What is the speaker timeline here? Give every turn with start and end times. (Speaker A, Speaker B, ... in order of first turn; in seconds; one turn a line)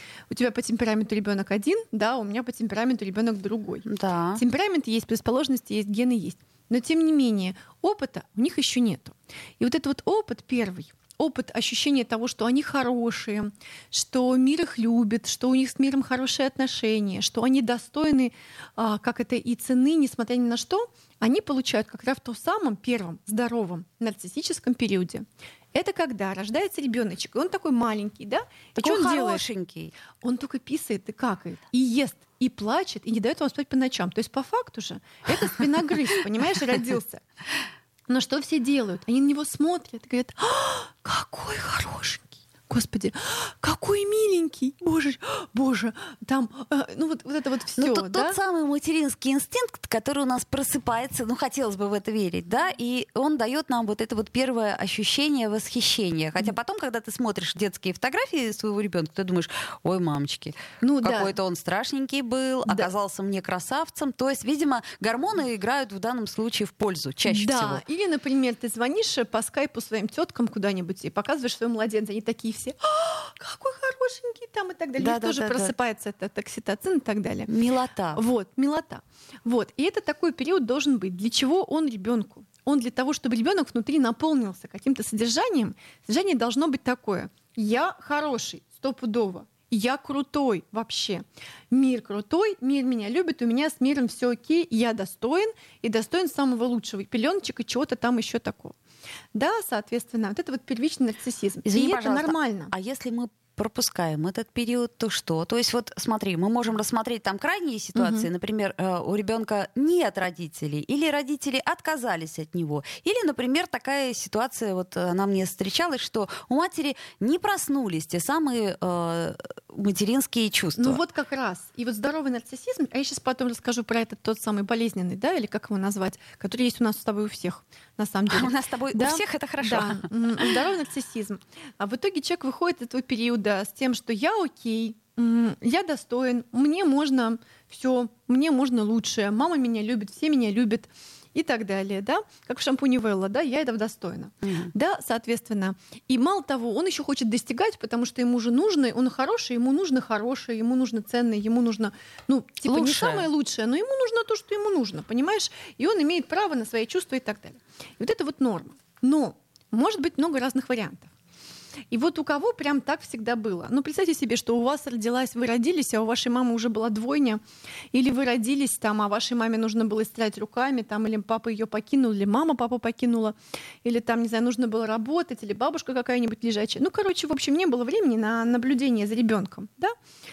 Speaker A: 0.3-29.4
Speaker B: 3.9-4.4
Speaker B: 28.8-29.9
Speaker A: 30.2-37.2
Speaker A: 38.1-48.4
Speaker B: 47.8-67.8
Speaker A: 60.8-61.4
Speaker A: 67.2-77.5
Speaker B: 75.0-75.7
Speaker B: 77.5-78.2
Speaker A: 78.1-98.8
Speaker A: 99.3-102.7
Speaker B: 101.6-121.0
Speaker A: 107.9-108.3
Speaker A: 120.8-161.1
Speaker B: 128.3-130.5
Speaker B: 144.4-144.7
Speaker B: 152.7-153.3
Speaker A: 161.9-167.4
Speaker A: 167.9-179.9